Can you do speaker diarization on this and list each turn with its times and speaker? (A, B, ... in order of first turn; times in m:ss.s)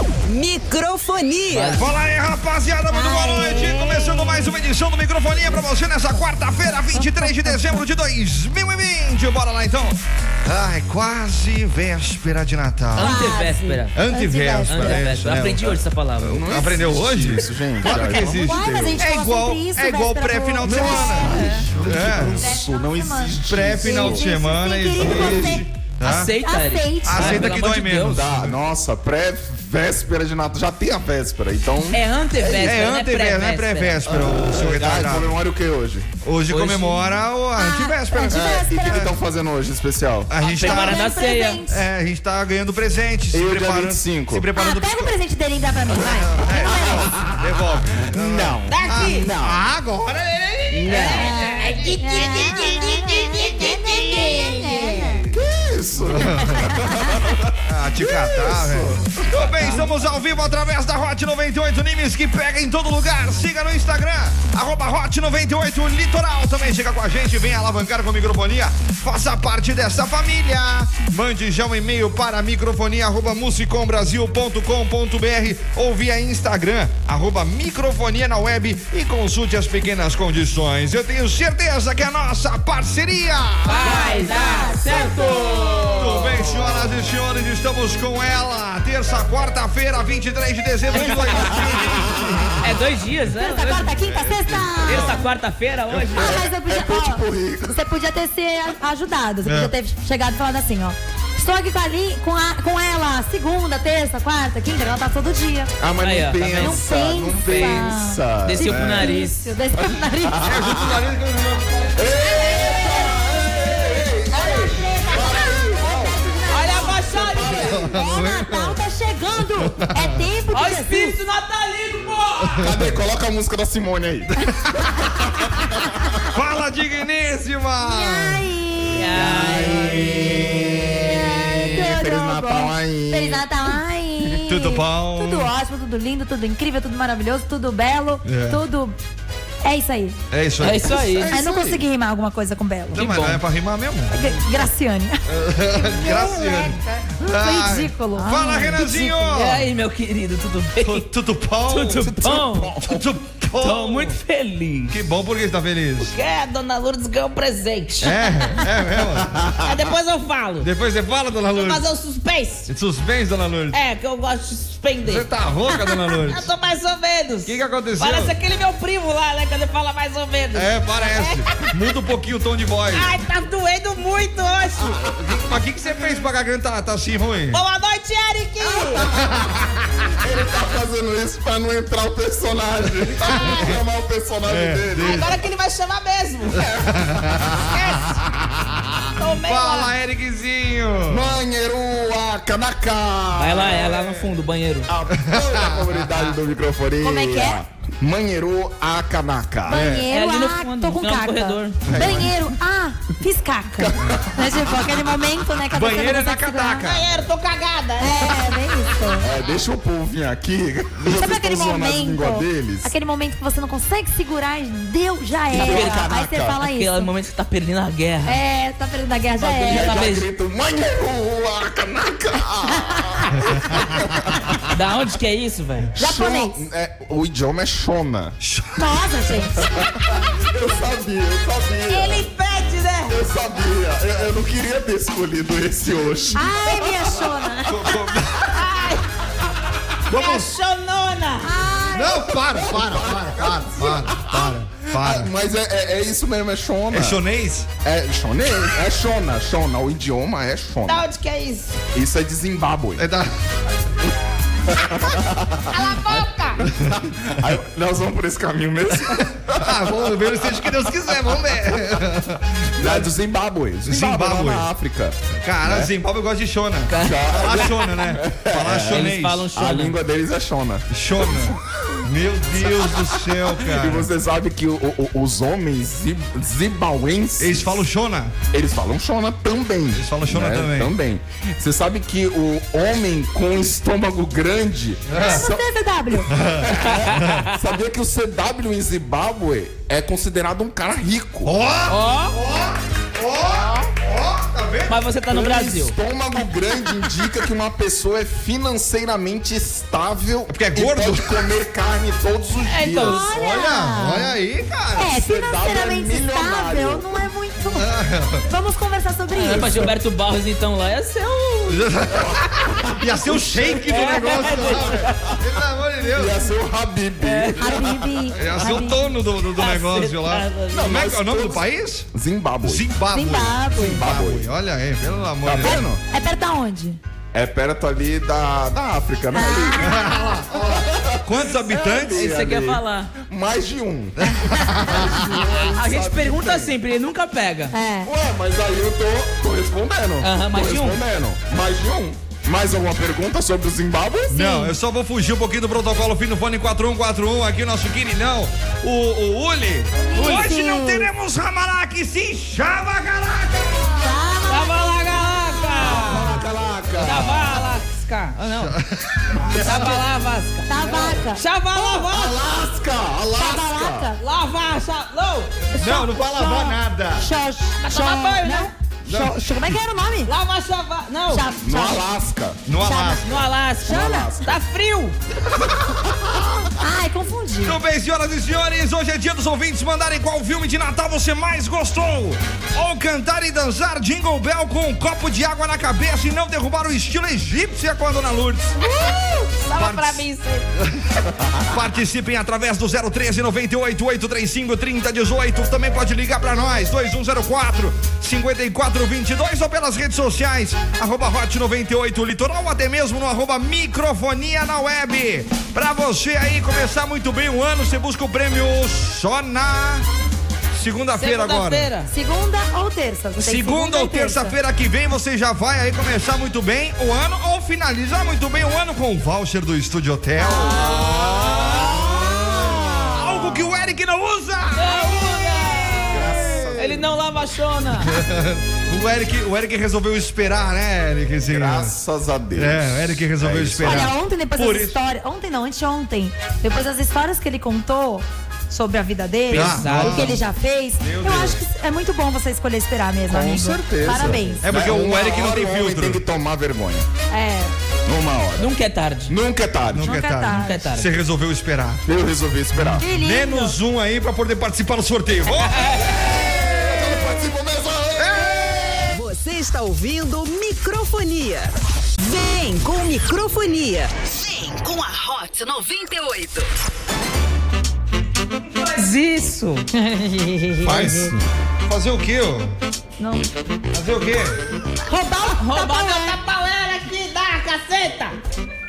0:00.2-0:01.8 A
0:01.5-0:01.9 B
0:01.7-0:13.1 C
0:02.9-0:04.5 D
0:06.9-0:07.8 D
0:12.9-0:13.9 B
0:13.0-0:15.0 D
0:13.9-0:22.4 C
0:14.6-0:16.4 B
0:16.2-0:19.0 E
0:17.8-0:21.5 D
0:20.6-0:24.4 E
0:21.2-0:21.6 B
0:22.1-0:25.6 D
0:23.4-0:26.3 C
0:24.9-0:25.6 E
0:26.0-0:28.2 B
0:26.4-0:27.4 D
0:27.0-0:28.6 C
0:28.1-0:32.8 E
0:31.9-0:34.1 B
0:32.6-0:35.4 C
0:34.0-0:36.1 E
0:36.2-0:39.1 C
0:36.5-0:37.2 B
0:37.5-0:39.1 D
0:38.3-0:40.3 E
0:40.3-0:41.0 C
0:40.4-0:41.8 D
0:40.4-0:41.6 B
0:41.7-0:45.1 C
0:43.3-0:44.5 E
0:44.5-0:47.1 D
0:46.0-0:52.0 C
0:46.5-0:49.6 E
0:48.7-0:49.3 B
0:50.7-0:51.3 E
0:50.9-0:55.2 B
0:51.1-0:55.3 D
0:55.3-1:00.0 E
0:56.0-0:56.8 C
0:56.8-0:57.3 D
0:57.6-1:24.1 C
1:23.6-1:26.1 B
1:23.8-1:26.0 D
1:23.8-1:26.3 E
1:25.9-1:32.7 C
1:30.9-1:32.6 E
1:30.9-1:31.7 B
1:32.6-1:33.9 B
1:33.4-1:35.2 D
1:34.0-1:35.2 C
1:34.8-1:36.3 B
1:36.0-1:37.8 E
1:36.1-1:45.7 D
1:39.4-1:39.7 C
1:45.8-1:48.7 E
1:46.0-1:49.5 B
1:46.6-1:50.4 D
1:48.7-1:49.1 C
1:49.8-1:51.0 E
1:50.4-1:52.0 C
1:51.9-1:57.9 E
1:52.2-1:57.1 D
1:56.5-1:57.8 B
1:57.5-1:58.8 C
1:57.8-2:01.1 D
1:59.7-2:00.0 C
2:00.5-2:02.7 B
2:02.4-2:03.0 C
2:02.6-2:04.3 E
2:05.7-2:06.1 E
2:06.3-2:08.5 C
2:07.8-2:10.1 D
2:08.9-2:10.1 B
2:09.1-2:13.5 E
2:09.4-2:09.7 C
2:11.0-2:18.9 D
2:14.3-2:15.5 C
2:18.2-2:18.6 C
2:19.6-2:20.2 D
2:20.3-2:21.1 C
2:20.6-2:21.3 B
2:20.9-2:21.8 E
2:21.3-2:23.0 D
2:22.9-2:23.4 B
2:22.9-2:24.2 C
2:24.1-2:25.2 D
2:25.3-2:29.7 C
2:25.7-2:29.2 D
2:29.2-2:31.1 B
2:30.8-2:32.1 C
2:31.7-2:32.8 B
2:32.0-2:33.1 E
2:32.8-2:34.2 C
2:33.6-2:35.0 B
2:34.9-2:36.1 C
2:36.0-2:38.5 B
2:38.0-2:39.5 C
2:39.6-2:40.7 B
2:40.6-2:41.8 C
2:41.5-2:42.7 B
2:42.7-2:43.8 C
2:43.7-2:51.7 B
2:45.0-2:46.4 C
2:47.4-2:48.3 C
2:50.5-2:53.1 C
2:52.9-2:55.1 B
2:55.1-2:57.6 C
2:57.5-2:59.1 B
2:58.7-2:59.3 E
2:59.0-2:59.7 C
3:00.2-3:05.4 E
3:03.4-3:03.7 B
3:04.5-3:05.4 C
3:05.0-3:06.7 B
3:06.7-3:07.7 C
3:07.6-3:08.2 B
3:09.2-3:09.9 B
3:09.4-3:11.4 C
3:11.1-3:14.0 E
3:13.4-3:14.9 B
3:14.9-3:19.8 E
3:15.2-3:16.3 C
3:17.0-3:17.6 D
3:19.7-3:26.9 D
3:19.7-3:20.0 C
3:20.1-3:21.9 B
3:21.9-3:22.3 C
3:23.8-3:24.9 E
3:25.7-3:27.2 C
3:26.8-3:28.4 B
3:28.0-3:29.3 D
3:29.2-3:32.9 E
3:31.0-3:37.1 D
3:35.5-3:36.6 E
3:35.5-3:36.0 B
3:36.6-3:38.4 B
3:38.2-3:40.0 D
3:39.4-3:44.7 E
3:39.6-3:40.3 B
3:42.8-3:43.1 D
3:43.5-3:43.8 C
3:44.7-3:45.9 B
3:46.0-3:48.4 E
3:46.0-3:46.6 D
3:48.4-3:48.7 C
3:48.8-3:49.6 D
3:49.6-3:52.2 E
3:51.9-3:53.2 B
3:53.1-3:57.3 E
3:56.3-3:58.0 D
3:57.6-3:58.7 C
3:58.4-3:59.0 B
4:00.1-4:01.5 B
4:00.1-4:00.5 C
4:01.4-4:02.3 D
4:01.9-4:05.3 C
4:02.5-4:07.2 E
4:06.9-4:07.7 C
4:07.8-4:11.0 E
4:10.8-4:11.8 B
4:11.9-4:13.1 E
4:13.0-4:13.3 C
4:14.7-4:15.8 E
4:15.7-4:16.6 B
4:16.6-4:22.0 E
4:19.1-4:23.1 C
4:22.8-4:25.9 E
4:23.8-4:24.7 C
4:25.4-4:29.5 C
4:26.9-4:27.3 B
4:27.0-4:32.0 E
4:28.9-4:30.0 B
4:30.9-4:34.1 C
4:32.5-4:37.8 E
4:37.4-4:38.4 C
4:38.5-4:45.6 E
4:39.9-4:40.9 C
4:45.1-4:45.4 C
4:45.2-4:46.3 D
4:46.3-4:47.5 C
4:46.4-4:51.5 E
4:46.8-4:47.6 B
4:51.4-4:55.0 C
4:51.9-4:52.4 B
4:54.9-4:56.0 B
4:55.3-5:03.3 E
5:00.5-5:01.5 C
5:02.7-5:03.2 B
5:03.0-5:04.3 D
5:03.3-5:05.1 C
5:05.0-5:07.9 D
5:05.1-5:07.3 E
5:07.7-5:08.4 C
5:08.4-5:09.8 D
5:09.3-5:11.8 B
5:09.5-5:09.9 E
5:11.7-5:16.4 C
5:12.1-5:15.3 E
5:13.9-5:15.1 B
5:16.1-5:18.1 E
5:17.2-5:17.7 B
5:17.6-5:19.1 D
5:18.3-5:22.1 C
5:19.6-5:20.9 B
5:20.7-5:22.8 E
5:22.6-5:25.8 C
5:23.1-5:24.0 D
5:23.7-5:24.5 E
5:25.4-5:26.0 E
5:25.6-5:27.0 D
5:27.3-5:36.7 E
5:29.3-5:30.4 D
5:29.8-5:32.3 C
5:32.1-5:33.1 B
5:34.2-5:35.6 C
5:35.7-5:37.7 B
5:37.7-5:38.1 D
5:38.0-5:44.6 E
5:40.2-5:41.0 B
5:44.3-5:54.1 C
5:44.3-5:44.7 D
5:50.0-5:51.1 D
5:50.2-5:50.5 B
5:54.0-5:56.4 D
5:54.5-5:56.4 B
5:55.8-5:57.7 E
5:57.0-5:58.7 B
5:58.6-5:59.9 C
5:59.5-6:02.4 B
6:00.7-6:02.1 D
6:02.1-6:04.1 E
6:03.3-6:04.2 D
6:04.2-6:05.6 B
6:05.7-6:10.3 D
6:05.8-6:07.3 C
6:07.8-6:08.7 B
6:09.0-6:09.7 C
6:10.2-6:11.4 B
6:11.3-6:12.0 D
6:11.6-6:12.6 E
6:12.6-6:13.4 C
6:12.8-6:13.3 D
6:13.2-6:15.2 B
6:13.8-6:14.5 E
6:13.8-6:14.3 D
6:16.8-6:17.8 D
6:17.6-6:28.7 C
6:28.8-6:30.7 B
6:29.7-6:30.2 C
6:30.8-6:50.0 C
6:50.7-6:51.9 C
6:51.2-6:52.1 B
6:52.1-6:54.6 D
6:53.4-7:06.8 C
7:00.4-7:03.4 E
7:00.5-7:00.8 D
7:00.6-7:01.5 B
7:04.7-7:08.1 B
7:06.0-7:07.1 E
7:08.0-7:11.9 C
7:11.5-7:14.1 E
7:12.6-7:15.0 C
7:13.8-7:24.7 D
7:19.5-7:20.4 B
7:19.5-7:20.4 C
7:21.0-7:21.6 C
7:23.3-7:27.1 E
7:24.1-7:24.6 B
7:24.6-7:26.2 C
7:27.3-7:27.7 D
7:28.0-7:28.7 E
7:28.6-7:29.3 B
7:29.3-7:30.2 E
7:29.9-7:32.0 C
7:30.0-7:30.8 D
7:30.4-7:31.1 B
7:32.0-7:33.0 E
7:32.7-7:36.0 C
7:33.0-7:33.8 D
7:35.7-7:36.1 B
7:35.8-7:39.0 E
7:38.2-7:39.1 C
7:39.1-7:46.7 A
7:48.7-7:49.9 B
7:50.0-7:51.2 D
7:50.8-7:52.7 C
7:53.2-7:53.5 D
7:53.9-7:54.6 C
7:55.0-7:56.4 D
7:55.6-7:58.4 B